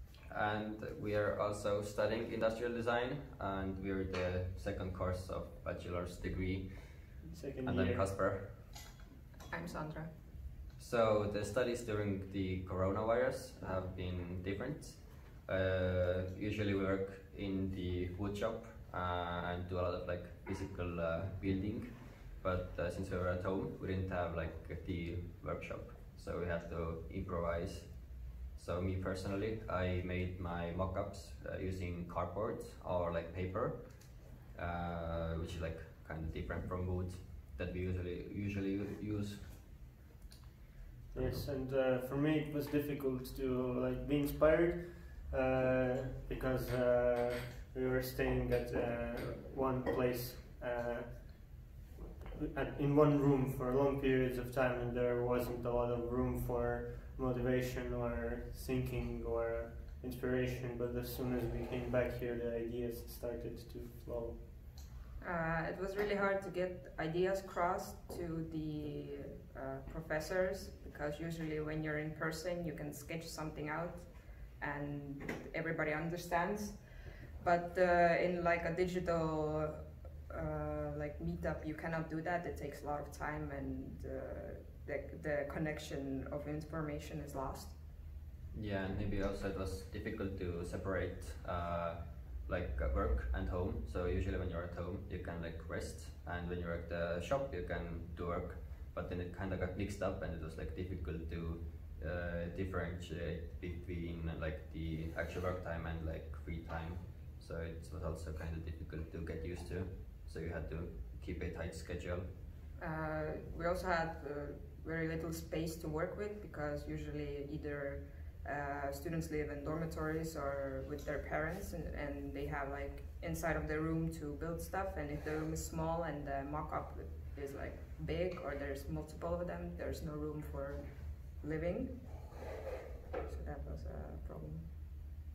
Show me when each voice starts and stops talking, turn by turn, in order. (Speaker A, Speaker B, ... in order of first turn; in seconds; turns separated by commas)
Speaker A: 0.3-8.6, Speaker B: 7.3-8.1, Speaker C: 9.5-10.1, Speaker A: 10.8-39.5, Speaker B: 41.1-51.6, Speaker A: 41.2-41.5, Speaker B: 52.3-64.4, Speaker C: 65.2-87.8, Speaker A: 88.5-112.3, Speaker C: 112.8-132.2, Speaker C: 133.3-134.9